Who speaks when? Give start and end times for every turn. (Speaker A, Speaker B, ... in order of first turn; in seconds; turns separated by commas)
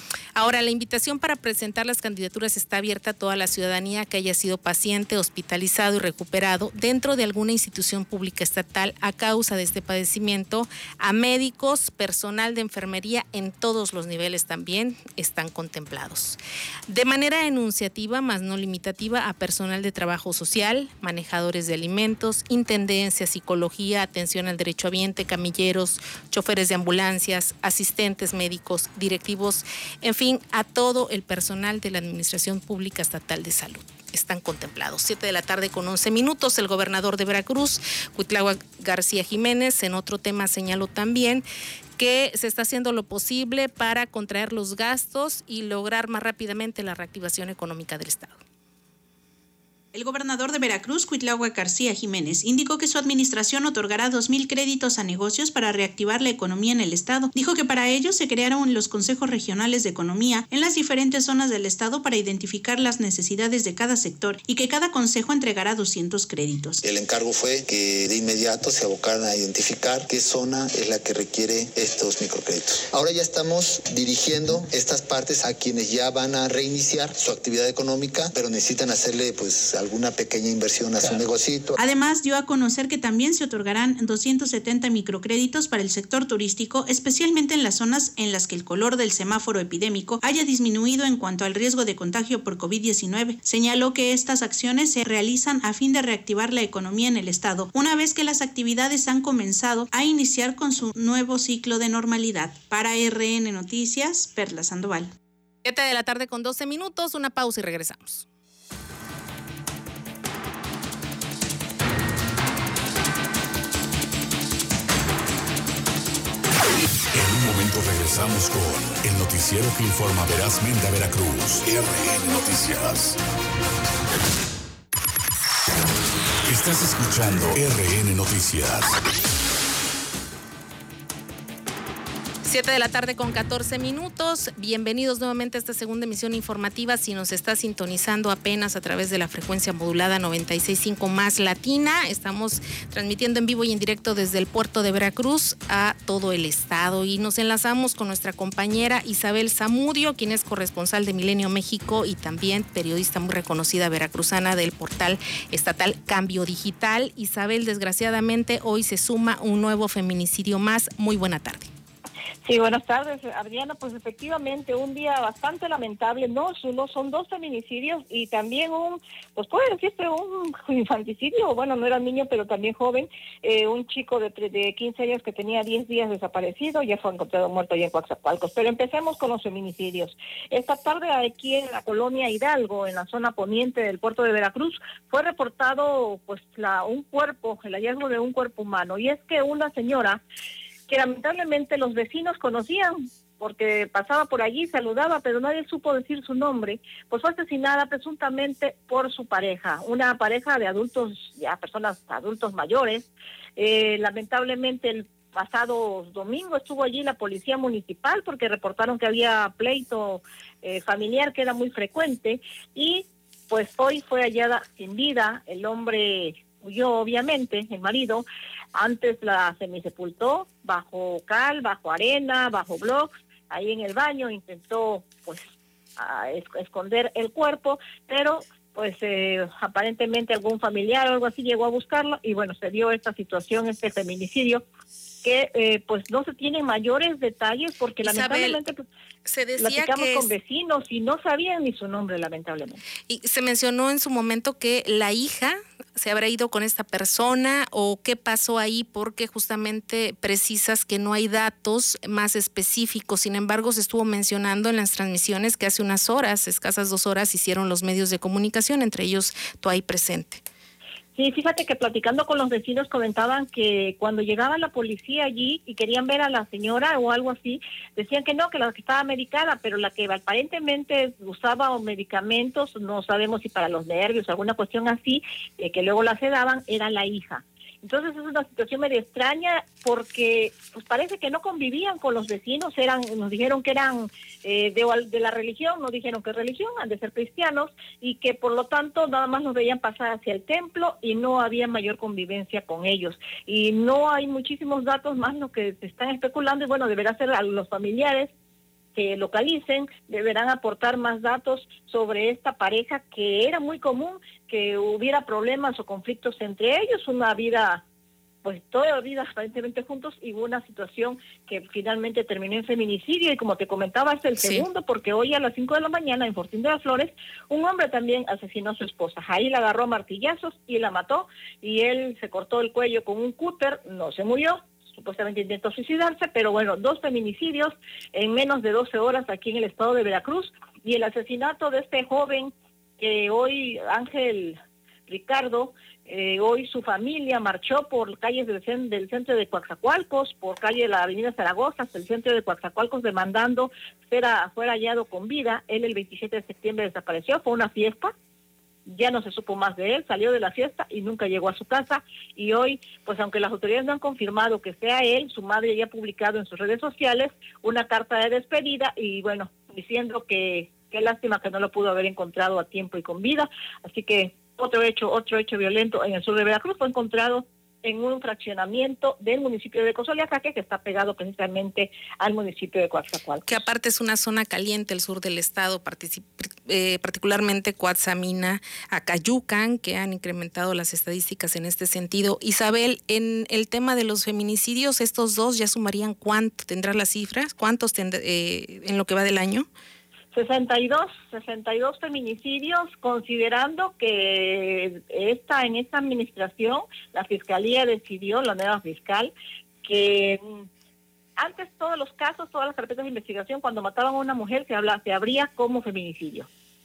Speaker A: 0.3-41.5, Speaker A: 42.0-48.4, Speaker B: 49.9-66.8, Speaker C: 66.8-81.8, Speaker B: 81.8-105.1, Speaker A: 105.6-108.3, Speaker D: 117.1-123.2, Speaker D: 126.5-129.0, Speaker A: 132.4-161.7, Speaker E: 162.4-190.2, Speaker E: 190.9-225.4, Speaker E: 226.0-234.6, Speaker E: 235.2-238.8, Speaker A: 238.0-238.6, Speaker A: 239.2-240.3, Speaker E: 239.6-242.8, Speaker A: 243.1-260.4, Speaker E: 261.2-298.3, Speaker E: 298.9-307.8, Speaker E: 308.4-348.1, Speaker A: 314.4-314.7, Speaker E: 348.9-373.6, Speaker A: 373.5-389.7, Speaker E: 390.3-399.3, Speaker E: 399.9-400.6, Speaker E: 401.4-406.5